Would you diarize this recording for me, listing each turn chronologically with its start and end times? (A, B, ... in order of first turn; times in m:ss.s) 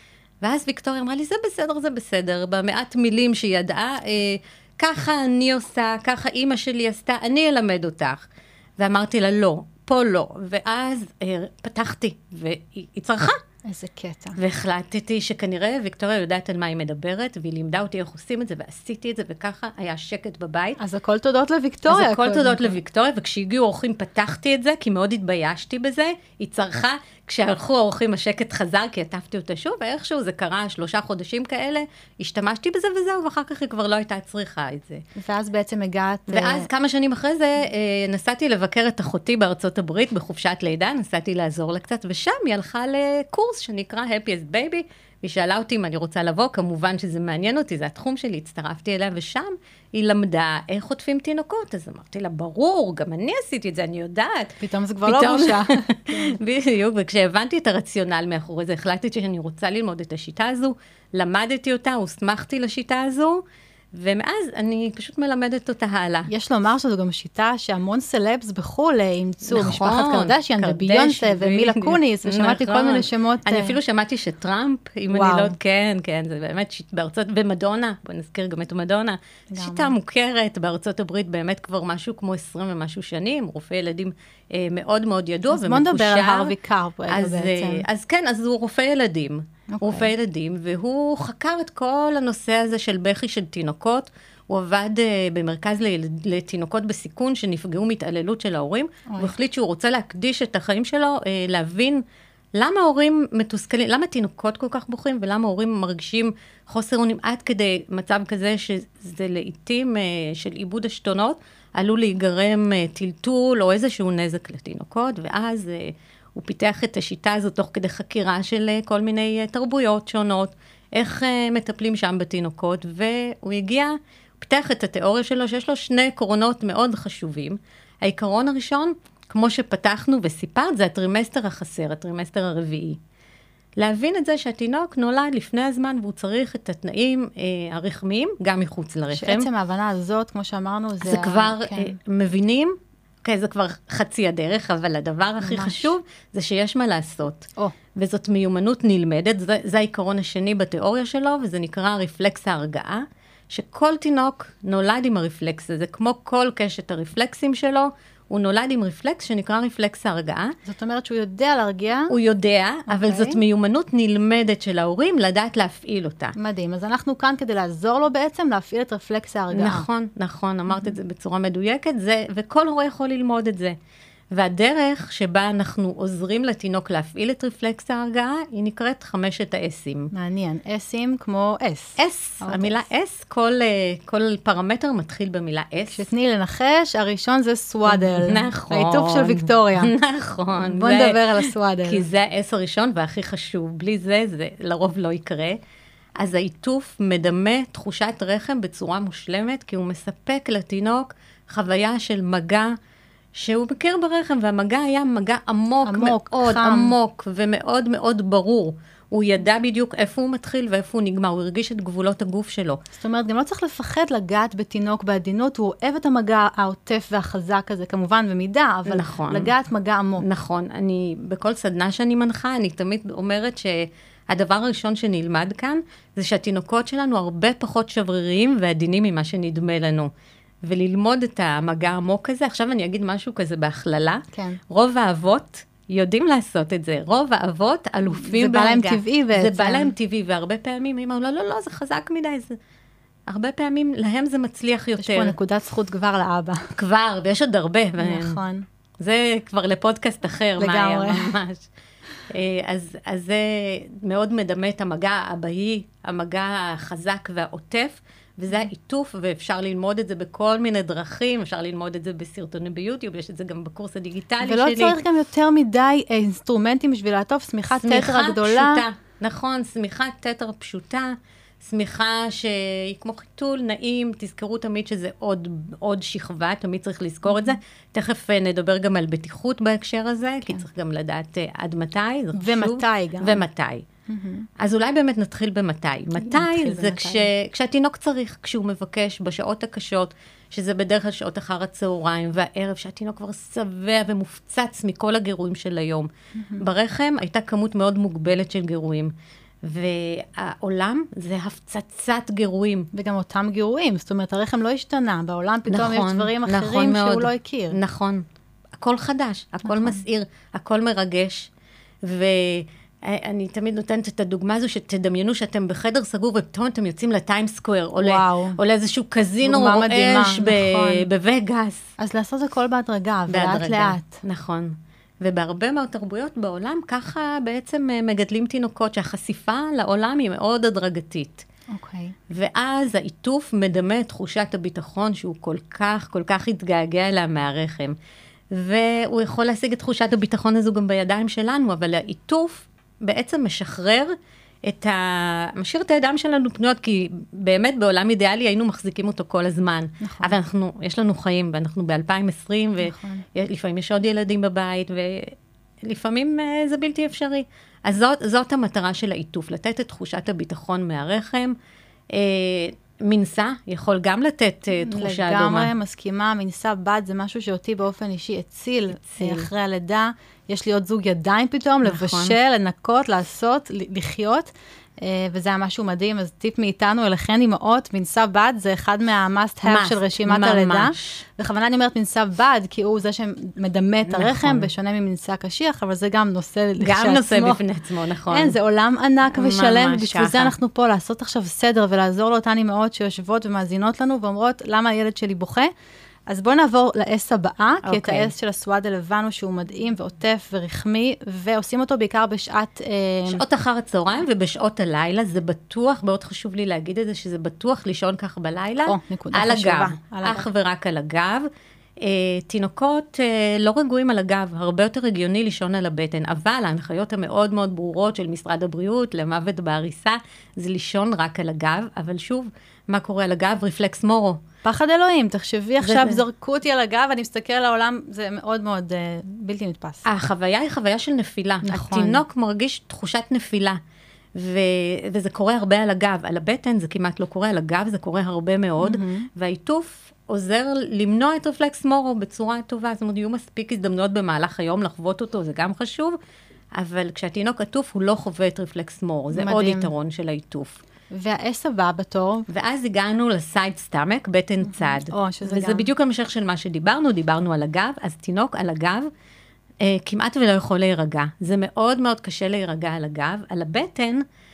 0:00.4-0:08.2 A
0:08.8-0:13.4 A
0:13.7-0:14.4 B
0:14.4-0:20.8 A
0:20.8-0:22.8 B
0:21.9-0:35.0 A
0:35.2-0:36.7 B
0:36.3-1:03.4 A
0:54.6-0:56.4 B
1:03.9-1:06.3 A
1:06.3-1:13.8 B
1:09.4-1:26.5 A
1:15.1-1:15.6 B
1:19.5-1:19.9 B
1:25.5-1:27.8 B
1:27.1-1:42.0 A
1:29.7-1:30.1 B
1:39.1-1:39.3 B
1:42.6-2:13.0 A
2:13.8-2:19.5 A
2:19.1-2:22.0 B
2:21.0-2:40.6 A
2:25.4-2:25.9 B
2:40.6-2:42.1 B
2:42.1-2:46.3 A
2:42.9-2:43.4 B
2:46.4-2:49.9 B
2:49.5-2:53.8 A
2:54.3-3:00.1 A
3:00.1-3:02.9 B
3:02.0-3:06.1 A
3:05.9-3:09.9 B
3:07.9-3:15.6 A
3:10.6-3:12.0 B
3:16.2-3:22.7 A
3:23.4-3:32.8 A
3:25.8-3:27.0 B
3:32.9-3:40.2 B
3:38.9-3:39.5 A
3:40.2-3:50.1 A
3:50.6-4:02.6 A
3:54.3-3:54.6 B
3:58.1-3:59.9 B
4:03.3-4:05.4 A
4:05.0-4:06.7 B
4:06.8-4:08.4 A
4:08.0-4:08.6 B
4:09.0-4:11.7 A
4:10.6-4:11.4 B
4:12.3-4:25.0 A
4:24.4-4:28.8 B
4:27.8-4:43.8 A
4:37.3-4:37.6 B
4:42.4-4:43.4 B
4:44.1-4:44.5 B
4:44.6-5:02.9 A
4:46.2-4:47.3 B
4:56.4-4:56.6 B
5:02.9-5:07.8 B
5:05.7-5:08.2 A
5:08.8-5:11.5 A
5:09.7-5:10.0 B
5:12.0-5:21.8 A
5:18.0-5:18.6 B
5:19.4-5:21.0 B
5:22.0-5:24.2 B
5:23.3-5:31.4 A
5:31.7-5:32.2 B
5:32.3-5:38.0 A
5:38.5-6:01.6 A
5:50.0-5:50.4 B
5:52.8-5:53.2 B
6:02.1-6:05.7 A
6:04.8-6:27.6 B
6:09.0-6:09.5 A
6:11.8-6:12.4 A
6:19.6-6:21.2 A
6:24.1-6:24.7 A
6:26.8-6:28.6 A
6:28.3-6:35.7 B
6:29.3-6:30.5 A
6:36.3-6:43.4 B
6:37.8-6:38.3 A
6:43.3-6:51.5 A
6:48.9-6:50.5 B
6:52.0-7:04.4 A
7:04.6-7:10.0 B
7:05.8-7:06.2 A
7:10.0-7:13.8 A
7:11.6-7:12.2 B
7:14.4-7:26.2 A
7:18.8-7:19.3 B
7:26.8-7:30.8 A
7:29.3-7:29.9 B
7:31.1-7:32.5 B
7:32.5-7:39.1 A
7:34.6-7:35.9 B
7:39.8-7:44.2 A